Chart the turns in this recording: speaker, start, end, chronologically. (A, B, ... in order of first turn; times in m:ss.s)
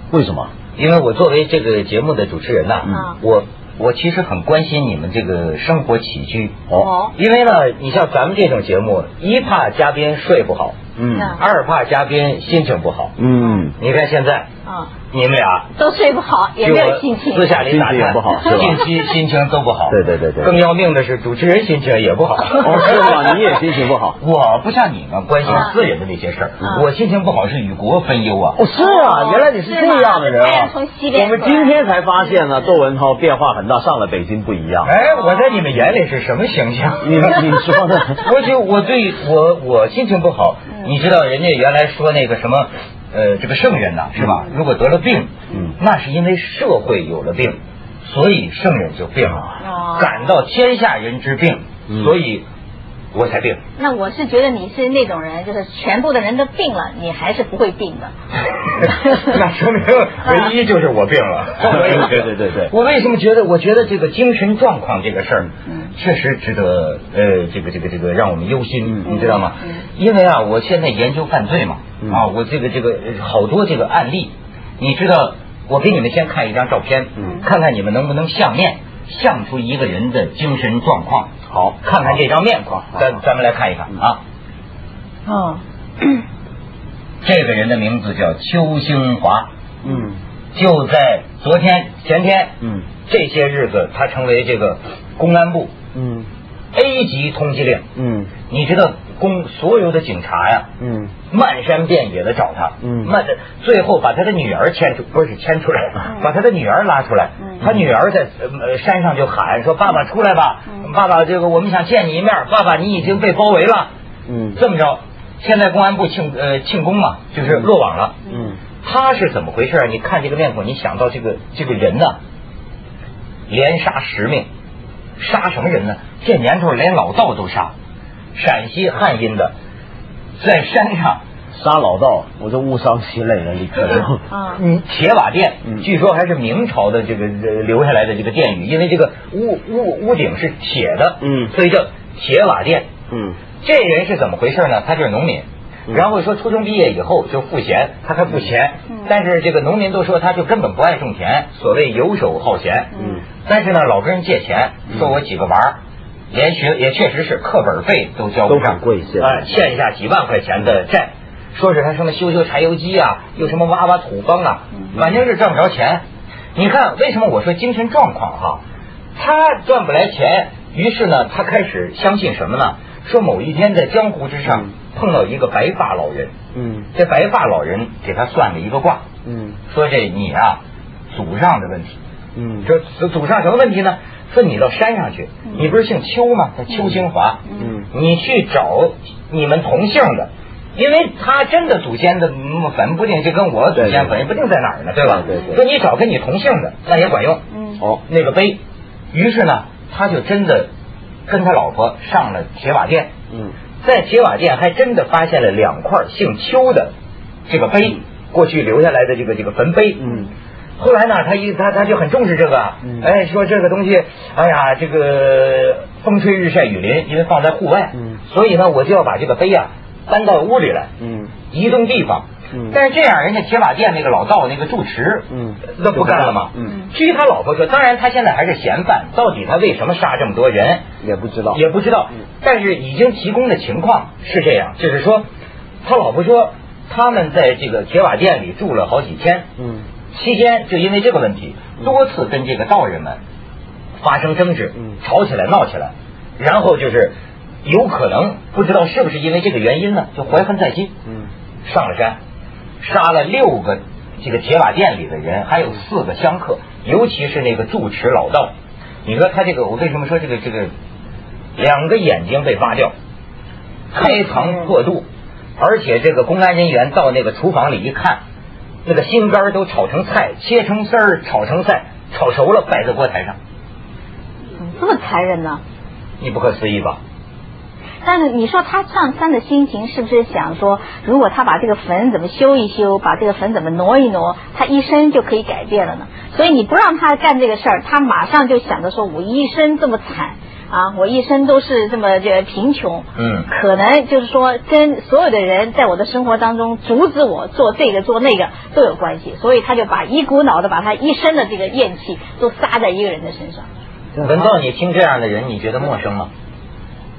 0:00.1-0:00.5 A
0:00.8-0:06.6 B
0:06.7-0:07.1 C
0:07.2-0:13.2 B
0:11.0-0:11.4 A
0:13.2-0:13.7 A
0:13.8-0:14.5 B
0:14.6-0:14.9 C
0:15.1-0:15.7 B
0:15.7-0:17.6 C
0:16.6-0:23.4 B
0:17.6-0:18.8 A
0:19.9-0:20.5 A
0:22.6-0:24.2 A
0:24.2-0:28.6 B
0:28.6-0:34.9 A
0:28.8-0:32.0 C
0:34.8-0:52.4 B
0:37.0-0:38.2 A
0:49.6-0:50.3 C
0:53.1-0:53.6 B
0:53.8-0:58.1 C
0:59.0-1:24.2 B
1:01.6-1:02.7 A
1:09.1-1:09.8 C
1:21.5-1:21.8 A
1:25.2-1:25.6 C
1:27.2-1:29.5 B
1:29.8-1:30.2 A
1:30.5-1:35.7 B
1:35.9-1:36.3 A
1:36.7-1:37.8 B
1:38.0-1:38.3 A
1:38.5-1:40.7 B
1:40.8-1:41.1 A
1:41.3-1:53.9 B
1:42.8-1:43.1 A
1:46.0-1:46.3 C
1:54.3-1:54.6 A
1:54.5-1:58.2 B
1:58.3-1:58.6 A
1:58.8-2:02.2 B
2:03.5-2:04.5 B
2:05.2-2:07.7 B
2:08.3-2:09.5 B
2:10.4-2:11.2 B
2:11.5-2:14.2 A
2:14.3-2:14.6 C
2:14.5-2:22.9 B
2:21.2-2:21.5 A
2:23.1-2:23.4 A
2:23.6-2:32.9 B
2:33.0-2:33.2 A
2:33.4-2:35.8 B
2:36.3-2:46.0 B
2:38.4-2:39.5 A
2:46.5-2:48.6 B
2:49.2-2:56.3 B
2:56.5-2:56.9 A
2:56.9-2:59.0 B
2:59.2-2:59.6 A
2:59.7-3:02.0 B
3:02.4-3:02.7 A
3:02.6-3:17.4 B
3:07.6-3:07.9 A
3:13.7-3:14.2 A
3:15.1-3:15.6 A
3:17.5-3:17.8 C
3:18.0-3:18.6 B
3:19.1-3:20.7 B
3:21.3-3:23.1 B
3:23.8-3:26.9 B
3:27.5-3:30.1 B
3:30.8-3:40.9 B
3:41.0-3:41.3 A
3:41.5-3:50.8 B
3:45.3-3:46.7 A
3:51.0-3:51.6 A
3:51.5-3:55.2 B
3:55.8-3:59.4 B
3:59.6-3:59.8 A
4:00.1-4:03.2 B
4:04.0-4:10.9 B
4:11.6-4:12.2 B
4:12.8-4:18.5 B
4:19.0-4:20.7 B
4:21.6-4:22.9 B
4:23.9-4:25.1 B
4:24.3-4:24.7 C
4:25.6-4:28.2 B
4:28.8-4:33.4 B
4:34.6-4:35.6 C
4:36.2-4:37.0 B
4:38.0-5:03.6 C
4:53.2-4:53.5 B
5:04.2-5:04.5 A
5:04.2-5:06.3 B